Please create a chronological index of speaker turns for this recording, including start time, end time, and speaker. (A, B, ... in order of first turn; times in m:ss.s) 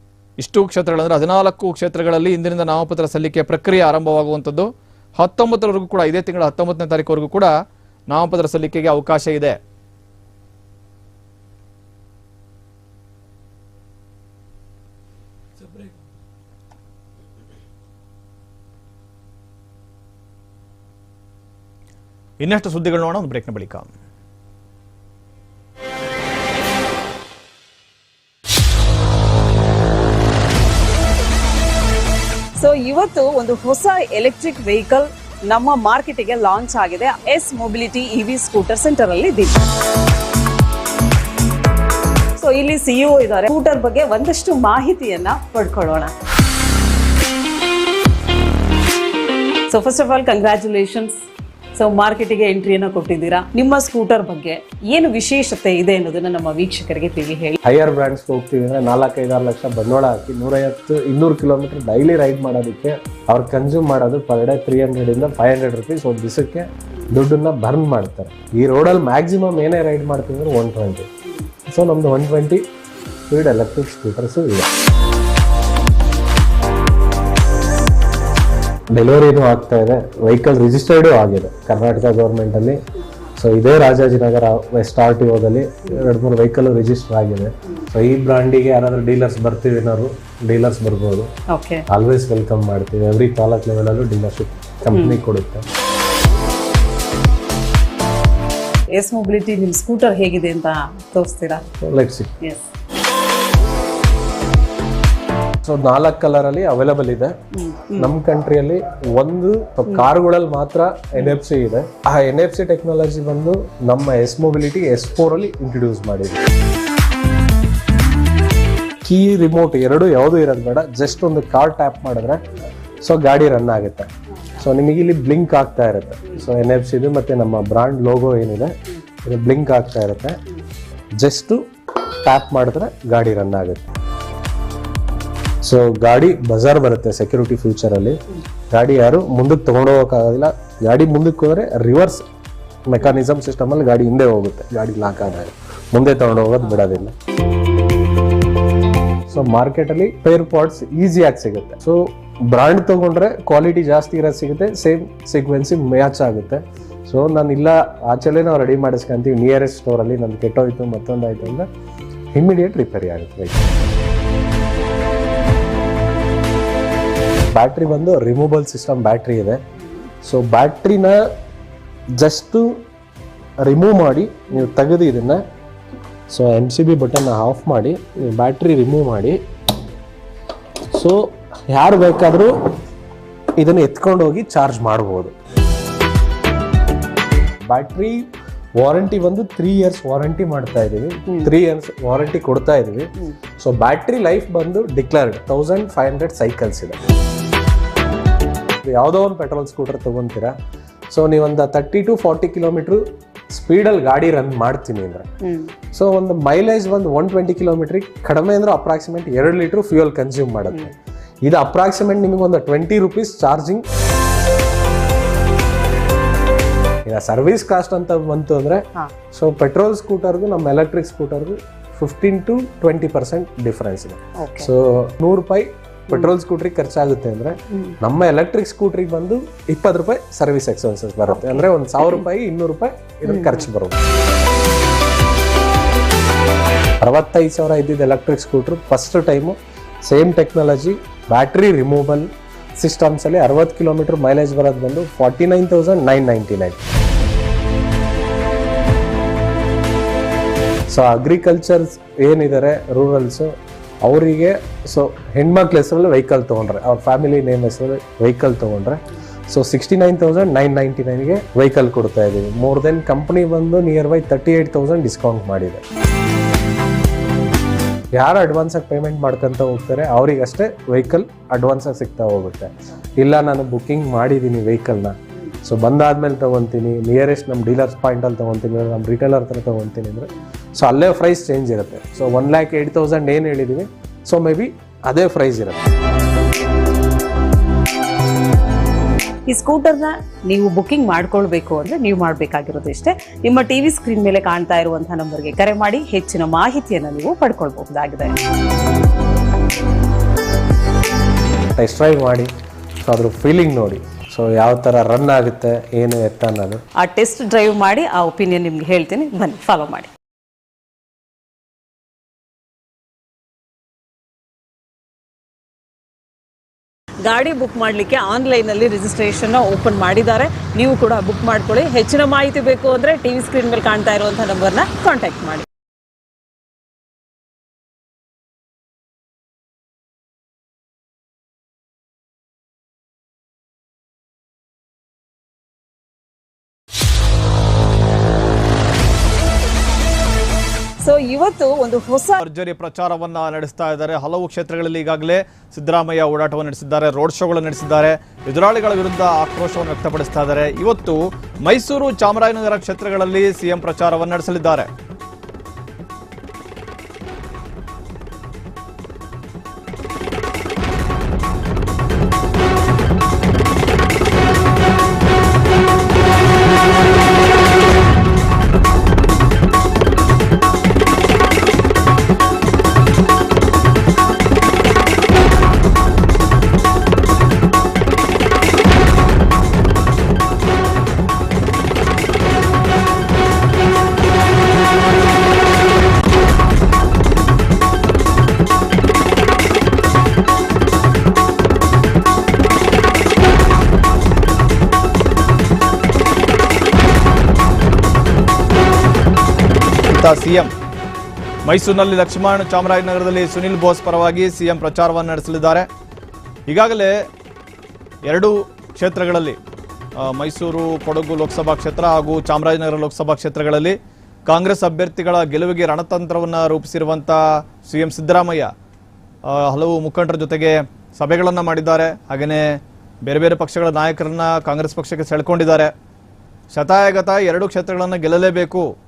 0:00.4-0:07.5 A
0:08.1-0:09.6 A
0:22.4-0:23.9 A
0:32.6-0:39.6 B
0:42.4-0:46.1 B
0:49.7-0:51.2 B
0:51.8-0:57.6 B
0:57.6-1:11.1 C
1:11.7-1:12.6 C
1:13.3-1:14.7 C
1:18.9-1:22.8 C
1:23.4-1:31.3 C
1:31.5-1:31.8 B
1:31.9-1:35.7 C
1:34.9-1:35.2 B
1:38.9-1:41.6 B
1:41.8-1:42.3 C
1:42.4-1:42.7 B
1:45.6-1:47.4 C
1:47.5-1:48.1 B
1:47.9-1:56.5 C
1:59.0-2:02.4 C
2:03.0-2:10.4 C
2:11.2-2:13.9 C
2:15.6-2:22.3 C
2:22.9-2:27.2 C
2:29.3-2:41.7 C
2:42.3-2:43.7 C
2:47.5-2:49.6 C
2:50.2-2:51.3 C
2:52.2-2:52.8 C
2:53.6-2:55.4 C
2:56.3-2:59.4 C
3:00.9-3:02.7 C
3:03.6-3:05.4 C
3:07.6-3:17.0 C
3:18.8-3:20.6 C
3:21.1-3:25.3 C
3:25.4-3:25.7 B
3:25.9-3:33.8 C
3:37.0-3:54.0 C
3:44.4-3:44.7 B
3:47.7-3:48.0 B
3:51.3-3:52.2 B
3:53.3-3:53.7 B
3:57.0-4:06.8 C
4:10.9-4:25.8 C
4:28.1-4:45.8 C
4:49.5-4:58.4 B
5:01.7-5:02.5 C
5:03.0-5:06.8 C
5:07.0-5:10.1 B
5:17.2-5:25.7 B
5:41.0-5:42.4 B
5:42.4-5:54.9 A
6:40.1-6:40.7 A
6:41.6-6:45.9 A
6:46.7-6:47.3 A
6:48.3-6:49.6 A
6:50.2-6:58.7 A
6:59.5-7:05.9 A
7:06.7-7:08.9 A